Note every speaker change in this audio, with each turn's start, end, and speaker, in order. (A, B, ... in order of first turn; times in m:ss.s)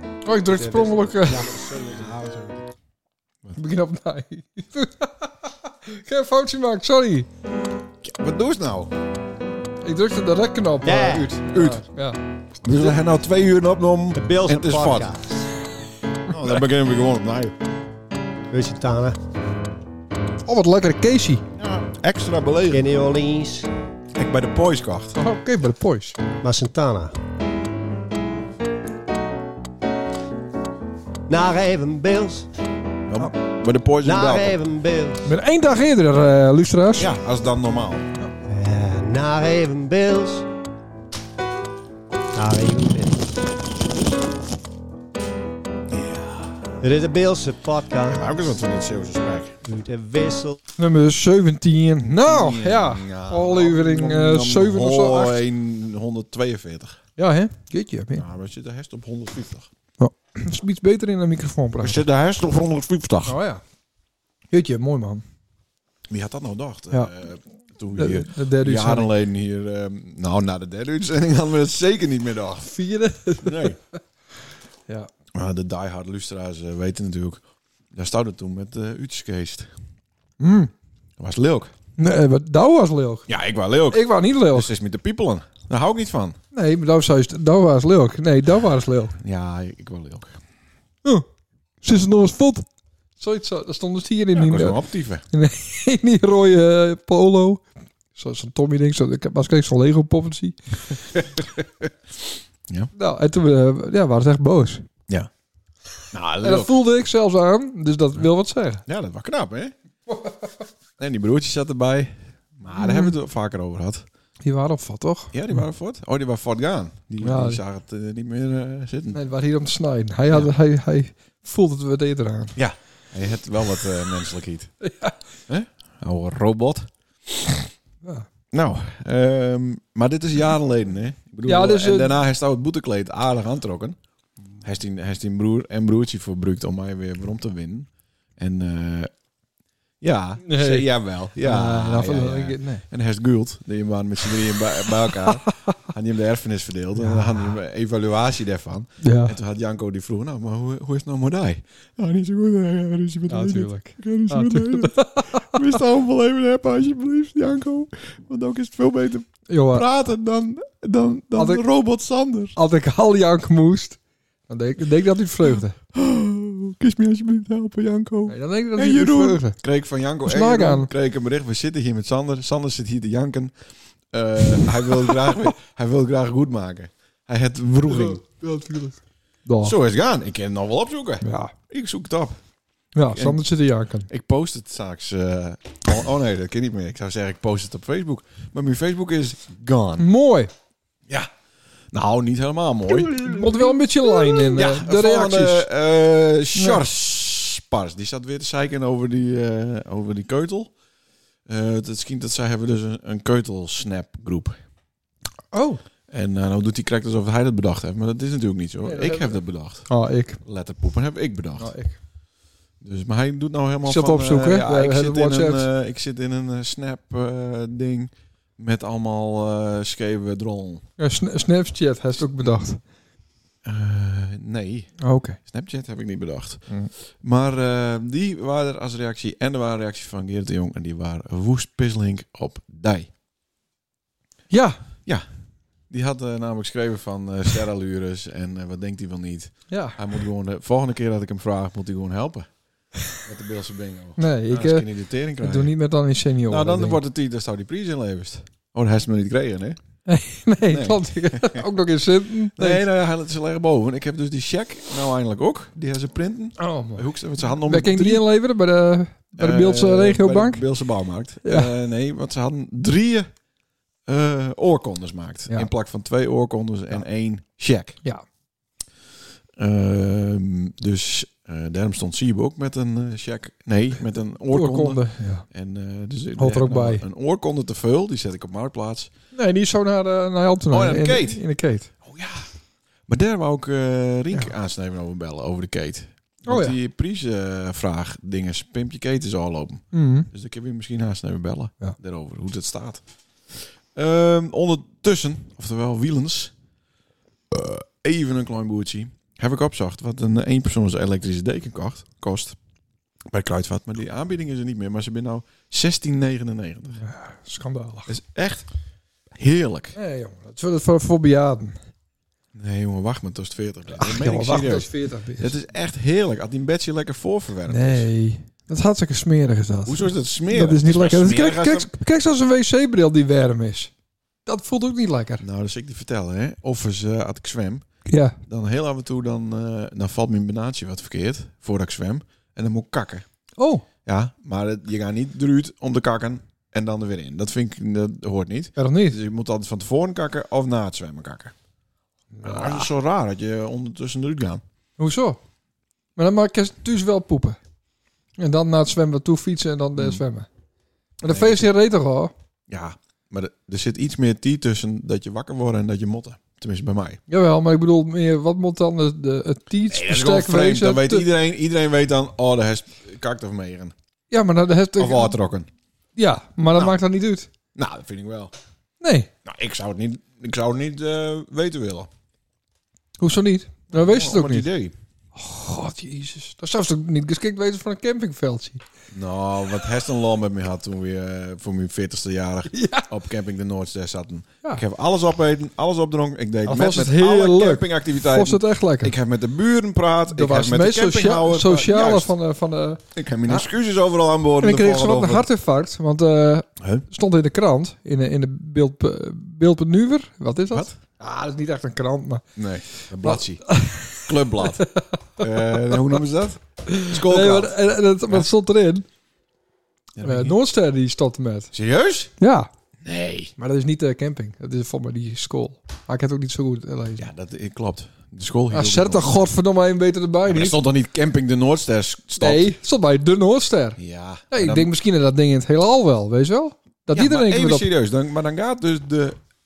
0:00.2-0:01.5 A
0:00.5-0:02.6 B
0:02.0-0:02.4 C
0:03.6-0:07.3 A
0:08.0-0:08.9 C
0:09.8-0:12.2 A
0:10.8-0:11.4 B
0:11.5-0:11.8 C
0:12.6-0:15.1 C
0:14.1-0:15.5 B
0:16.3-0:17.6 C
0:18.5-0:19.2 B
0:20.4-0:21.4 A
0:21.6-0:22.9 C
0:22.7-0:23.7 B
0:24.1-0:25.2 C
0:25.2-0:26.2 A
0:26.4-0:27.1 B
0:31.3-0:32.5 B
0:33.1-0:34.6 C
0:34.0-0:35.3 B
0:35.2-0:37.1 A
0:37.0-0:38.1 C
0:38.5-0:40.4 B
0:42.3-0:43.4 B
0:45.9-0:46.6 C
0:46.8-0:48.2 B
0:48.1-0:49.6 C
0:49.6-0:50.6 B
0:50.8-0:55.4 A
0:52.0-0:57.0 C
0:57.2-0:58.2 A
0:58.1-0:59.7 C
1:00.0-1:02.0 A
1:01.8-1:03.4 C
1:03.2-1:03.6 A
1:04.5-1:05.2 A
1:06.1-1:12.7 C
1:07.9-1:09.1 A
1:12.7-1:13.8 A
1:13.4-1:13.8 C
1:15.3-1:17.4 C
1:17.9-1:19.7 C
1:20.4-1:20.7 A
1:21.2-1:21.7 C
1:22.0-1:23.3 A
1:23.3-1:26.4 C
1:23.9-1:24.7 A
1:26.5-1:29.2 A
1:29.2-1:30.4 C
1:31.8-1:32.6 A
1:33.2-1:34.8 A
1:34.3-1:35.2 C
1:35.3-1:37.6 A
1:38.1-1:41.0 A
1:41.1-1:41.9 C
1:42.9-1:44.8 A
1:46.1-1:46.7 C
1:46.4-1:48.8 A
1:48.9-1:49.7 C
1:51.0-1:54.0 C
1:52.8-1:53.1 A
1:54.4-1:55.4 A
1:55.3-1:59.2 C
1:57.2-1:57.6 A
1:59.1-2:02.6 A
2:02.6-2:04.7 C
2:04.8-2:05.2 A
2:05.5-2:07.6 C
2:08.5-2:14.0 C
2:11.4-2:12.1 A
2:14.6-2:19.1 C
2:20.0-2:42.6 C
2:20.4-2:22.8 A
2:27.0-2:27.5 A
2:29.0-2:29.4 A
2:33.3-2:35.6 A
2:39.5-2:39.8 A
2:41.4-2:41.6 A
2:42.6-2:44.0 A
2:44.5-2:45.8 A
2:45.9-2:53.5 C
2:48.3-2:49.6 A
2:50.2-2:50.9 A
2:54.1-2:58.2 C
2:57.8-2:59.7 A
2:59.6-3:02.4 C
3:01.2-3:01.5 A
3:02.9-3:04.1 A
3:03.1-3:03.4 C
3:04.1-3:10.1 C
3:10.0-3:10.5 A
3:11.9-3:13.2 C
3:13.1-3:15.7 A
3:14.5-3:20.7 C
3:16.5-3:16.8 A
3:21.5-3:24.6 C
3:25.5-3:25.8 A
3:26.1-3:29.9 C
3:28.8-3:30.4 A
3:30.4-3:31.7 C
3:31.6-3:32.0 A
3:32.8-3:40.8 C
3:33.8-3:35.6 A
3:41.0-3:42.8 A
3:43.6-3:44.9 C
3:45.0-3:45.4 A
3:45.4-3:46.6 C
3:47.2-3:53.1 C
3:54.5-3:54.8 A
3:55.9-4:02.5 C
3:59.7-4:00.0 A
4:03.2-4:05.7 C
4:04.2-4:04.9 A
4:05.4-4:07.0 A
4:06.5-4:09.8 C
4:10.1-4:12.8 A
4:10.7-4:11.7 C
4:12.6-4:18.2 C
4:16.6-4:17.1 A
4:17.6-4:20.6 A
4:19.4-4:23.3 C
4:21.4-4:21.7 A
4:24.0-4:28.0 C
4:29.6-4:35.0 C
4:34.5-4:35.4 A
4:35.5-4:39.1 C
4:36.4-4:37.0 A
4:39.3-4:41.9 A
4:40.7-4:41.4 C
4:42.0-4:42.5 C
4:43.1-4:56.5 C
4:46.5-4:46.8 A
4:49.9-4:50.3 A
4:57.5-5:02.6 C
5:03.3-5:07.0 C
5:06.9-5:08.1 A
5:08.1-5:08.6 C
5:09.3-5:09.9 C
5:09.9-5:11.8 A
5:12.5-5:18.1 C
5:14.0-5:15.5 A
5:17.7-5:23.9 A
5:19.8-5:21.9 C
5:24.4-5:25.4 A
5:25.4-5:27.8 C
5:28.1-5:28.4 A
5:28.5-5:33.2 C
5:33.6-5:33.8 A
5:34.0-5:41.5 C
5:38.8-5:39.2 A
5:42.3-5:42.9 A
5:42.4-5:44.6 C
5:45.0-5:45.4 A
5:46.2-5:47.6 A
5:48.4-5:50.5 A
5:49.9-5:50.2 C
5:51.2-5:52.3 A
5:51.2-5:51.7 C
5:52.7-5:57.2 C
5:57.3-6:01.3 A
5:59.9-6:03.9 C
6:04.3-6:05.3 A
6:05.0-6:05.7 C
6:06.2-6:07.5 A
6:07.7-6:08.5 C
6:09.0-6:09.3 A
6:09.4-6:12.1 C
6:13.2-6:14.7 A
6:13.9-6:14.9 C
6:15.3-6:18.8 A
6:19.1-6:32.3 C
6:22.7-6:23.1 A
6:26.6-6:29.1 A
6:30.3-6:33.7 A
6:33.1-6:35.4 C
6:34.6-6:42.4 A
6:36.8-6:37.0 C
6:42.6-6:43.6 C
6:43.2-6:46.0 A
6:44.2-6:44.8 C
6:45.4-6:47.7 C
6:46.9-6:49.0 A
6:50.2-6:50.6 C
6:50.2-6:51.7 A
6:51.7-6:52.3 C
6:52.4-6:52.7 A
6:53.0-6:53.5 C
6:53.6-6:57.3 A
6:57.2-6:59.4 C
6:58.7-7:00.8 A
7:00.4-7:02.7 C
7:02.4-7:07.9 A
7:04.0-7:04.9 C
7:07.1-7:09.4 C